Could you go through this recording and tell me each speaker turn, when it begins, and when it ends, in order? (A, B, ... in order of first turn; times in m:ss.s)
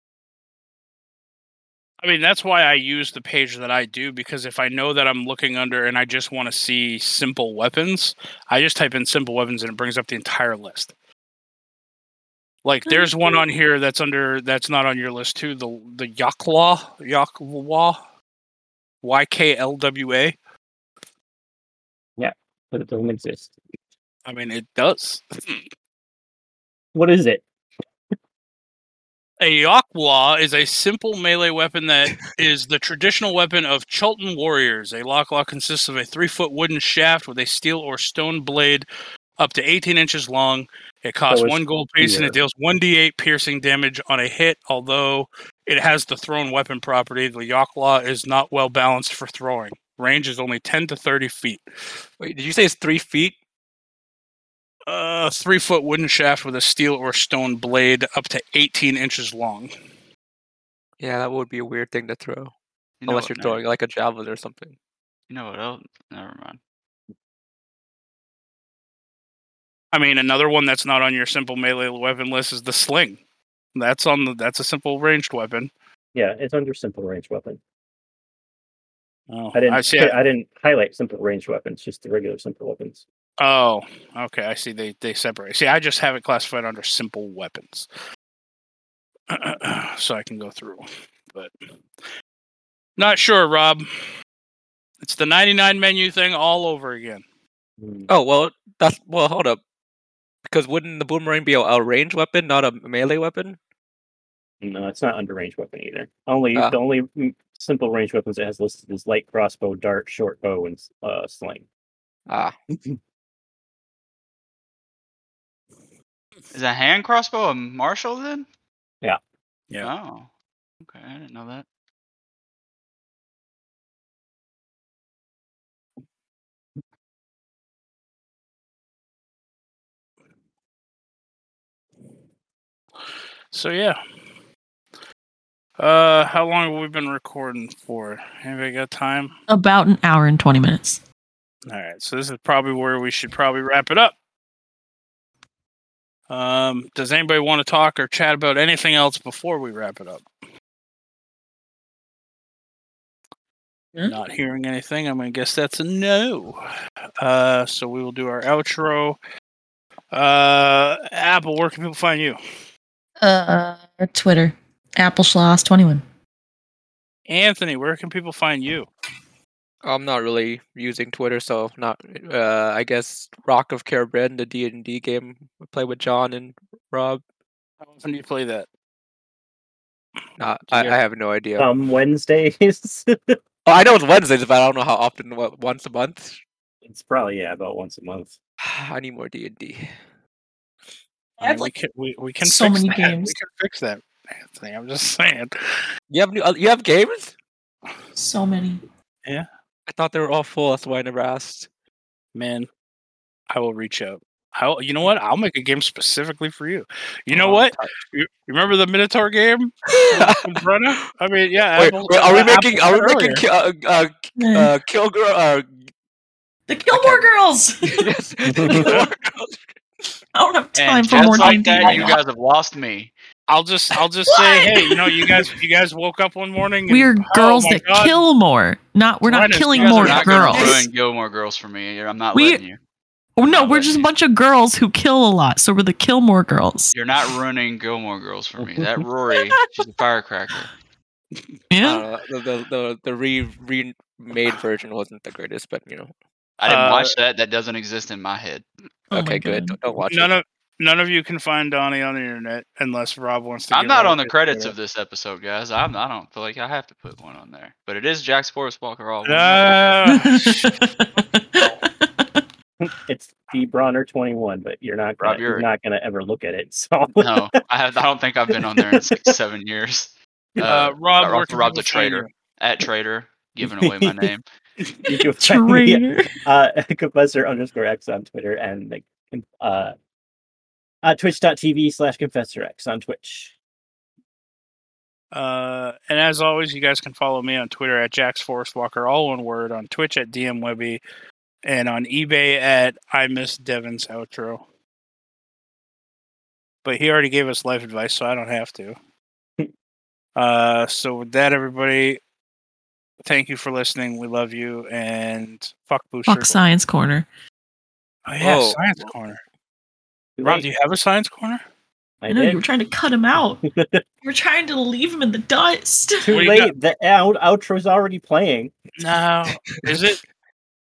0:02.0-0:10.9 A
0:12.6-0:18.0 A
0:19.0-0:20.4 A
0:22.2-0:23.6 B
0:24.3-0:25.6 A
0:27.0-0:27.4 B
0:29.4-0:38.9 A
0:39.4-0:51.6 A
0:41.3-0:42.4 B
0:52.2-0:53.4 C
0:54.9-0:59.7 A
1:01.0-1:02.5 C
1:03.0-1:03.6 D
1:03.1-1:04.8 C
1:05.3-1:06.6 D
1:09.9-1:13.2 A
1:13.8-1:15.7 A
1:16.2-1:17.6 B
1:19.3-1:20.1 A
1:19.5-1:23.0 B
1:23.4-1:27.9 A
1:29.3-1:31.6 A
1:33.0-1:33.9 A
1:35.0-1:37.2 A
1:37.8-1:38.1 B
1:38.1-1:39.6 C
1:40.5-1:43.6 C
1:44.6-1:51.6 B
1:52.3-1:52.6 C
1:56.5-1:58.5 D
1:59.8-2:00.3 D
2:00.8-2:01.7 D
2:13.5-2:14.0 A
2:15.8-2:19.3 A
2:19.5-2:21.0 E
2:21.7-2:24.2 A
2:26.3-2:30.2 A
2:34.0-2:36.6 A
2:37.2-2:39.2 A
2:40.1-2:42.4 A
2:43.2-2:46.0 E
2:47.3-2:48.9 A
2:49.8-2:57.2 C
2:57.9-2:58.7 A
3:00.4-3:01.7 C
3:01.6-3:03.4 B
3:03.7-3:06.4 C
3:06.8-3:08.4 B
3:08.6-3:10.0 C
3:11.4-3:15.8 A
3:11.4-3:11.7 E
3:12.4-3:13.4 E
3:16.1-3:17.3 C
3:18.2-3:18.8 E
3:19.9-3:21.7 C
3:22.4-3:22.7 A
3:23.5-3:33.4 A
3:27.3-3:27.9 C
3:29.9-3:31.1 C
3:31.7-3:35.8 C
3:34.4-3:34.7 E
3:36.7-3:38.1 E
3:36.9-3:37.3 C
3:37.8-3:40.1 C
3:38.5-3:38.9 B
3:38.7-3:39.0 E
3:40.3-3:42.2 E
3:40.8-3:43.1 D
3:41.2-3:42.0 C
3:41.2-3:41.6 A
3:43.5-3:48.2 A
3:44.3-3:45.4 E
3:46.9-3:50.9 E
3:49.2-3:50.8 A
3:49.7-3:52.8 D
3:52.3-3:52.6 E
3:53.4-3:57.3 E
3:53.4-3:54.1 D
3:56.9-4:00.7 D
3:58.6-3:58.9 B
3:59.3-3:59.8 E
4:01.7-4:02.1 E
4:01.8-4:06.1 C
4:06.6-4:08.7 D
4:06.7-4:07.2 A
4:09.1-4:10.0 E
4:09.1-4:10.3 C
4:10.1-4:14.4 A
4:13.7-4:19.9 D
4:19.2-4:20.7 A
4:20.1-4:22.4 E
4:22.8-4:27.5 B
4:25.2-4:25.7 D
4:27.2-4:34.4 D
4:28.6-4:29.3 B
4:30.6-4:32.3 A
4:35.1-4:40.0 B
4:35.4-4:36.4 E
4:41.0-4:43.5 B
4:45.3-4:51.0 A
4:51.6-4:54.6 A
4:56.8-4:59.0 A
5:00.4-5:02.2 A
5:03.2-5:06.6 A
5:06.3-5:07.3 E
5:08.3-5:09.4 A
5:08.4-5:08.8 C
5:10.4-5:10.7 B
5:10.4-5:11.6 A
5:12.2-5:12.6 B
5:12.3-5:13.6 E
5:13.6-5:14.0 B
5:14.2-5:16.5 E
5:16.2-5:18.7 B
5:16.3-5:16.7 A
5:19.0-5:20.2 A